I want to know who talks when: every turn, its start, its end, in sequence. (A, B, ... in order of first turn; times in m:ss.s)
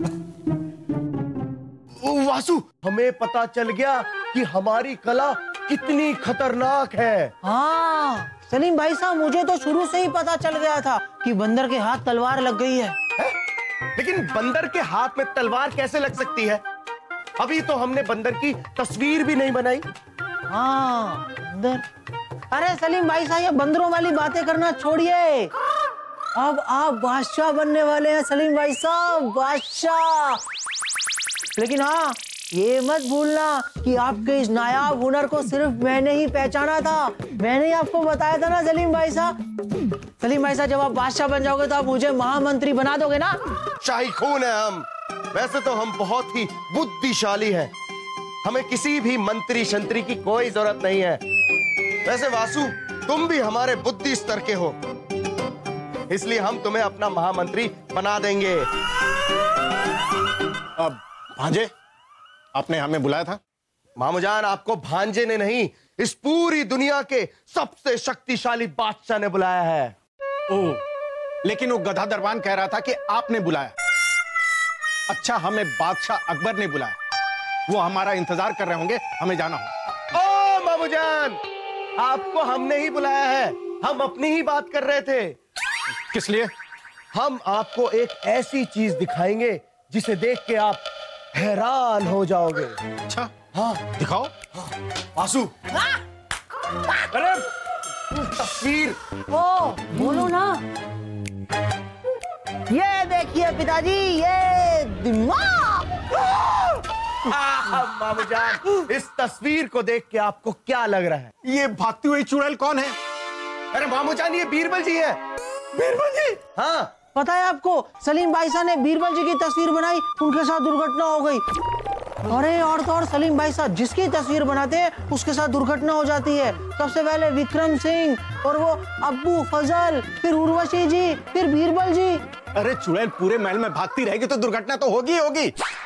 0:02.0-0:07.3 A
0:07.4-0:13.0 B
0:14.0-0:16.6 A
0:17.4-0:19.8 A
0:20.5-0:21.8 B
0:22.5-0:25.5 B
0:26.4-0:30.4 B
0:31.6-0:39.4 B
0:40.2-0:43.4 B
0:43.8-0:47.7 A
0:48.4-0:51.2 A
0:52.0-0:54.8 A
0:56.1-0:58.7 A
1:00.8-1:01.7 C
1:02.6-1:03.4 C
1:04.0-1:10.0 A
1:10.5-1:10.8 C
1:11.4-1:13.7 C
1:15.1-1:17.0 C
1:17.7-1:19.7 C
1:20.1-1:21.4 A
1:22.0-1:25.4 A
1:26.1-1:26.5 C
1:27.1-1:32.8 A
1:33.1-1:33.3 C
1:33.5-1:33.9 A
1:33.9-1:34.3 C
1:34.5-1:35.5 A
1:37.1-1:37.5 A
1:38.1-1:39.0 A
1:39.3-1:40.6 B
1:42.7-1:45.9 B
1:46.2-1:46.7 A
1:47.2-1:51.3 A
1:51.4-1:53.0 C
1:53.7-1:55.2 A
1:55.8-1:56.9 A
1:57.2-2:01.4 B
2:02.3-2:12.2 B
2:12.6-2:15.6 C